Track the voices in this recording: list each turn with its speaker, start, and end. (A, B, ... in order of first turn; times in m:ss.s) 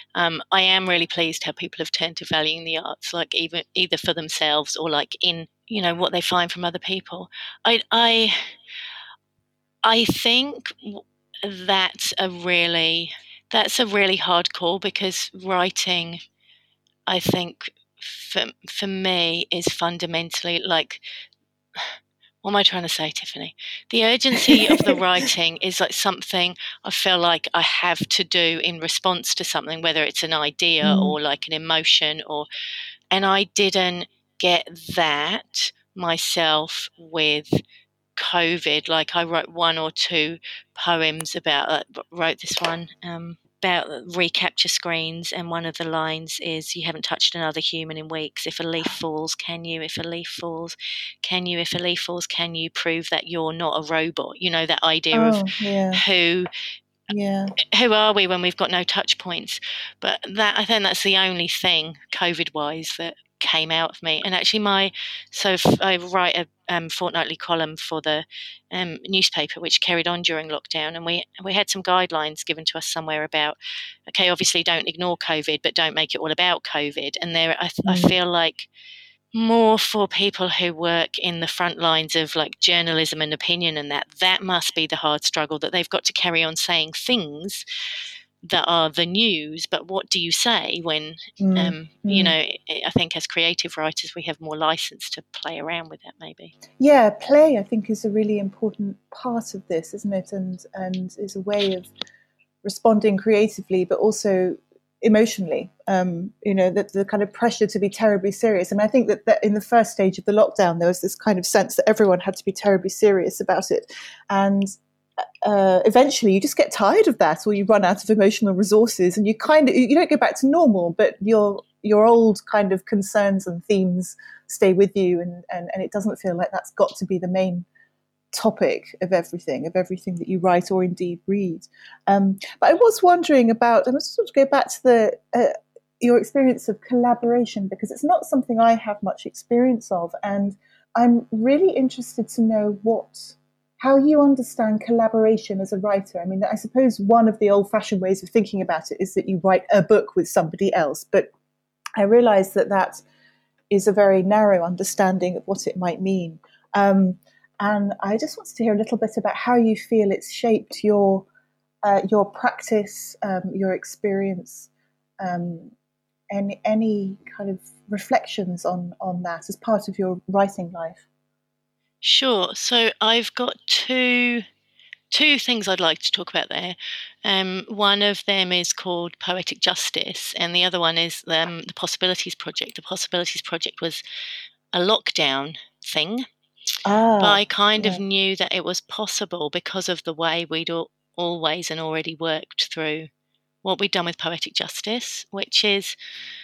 0:00.2-0:08.5 A
0:09.8-0:16.2 A
0:17.1-0:21.0 A
0:22.4-0:32.5 A
0:24.4-0:25.0 B
0:30.8-0:31.2 B
0:33.1-0:37.6 A
0:38.2-0:56.5 A
0:55.1-0:56.0 B
0:57.1-0:57.6 B
0:57.6-1:13.6 A
1:14.1-1:18.7 A
1:17.9-1:18.1 B
1:19.3-1:27.6 A
1:28.4-1:36.5 A
1:31.4-1:32.4 B
1:36.8-1:41.9 B
1:42.6-1:54.8 B
1:55.4-2:07.7 B
2:08.3-2:31.3 B
2:32.0-2:33.0 B
2:33.7-2:41.3 B
2:41.8-2:44.7 B
2:45.2-2:45.7 B
2:46.3-2:51.0 B
2:52.0-2:54.4 A
2:55.1-3:04.0 A
3:04.7-3:06.2 A
3:06.8-3:08.0 B
3:07.2-3:13.1 A
3:13.6-3:16.0 A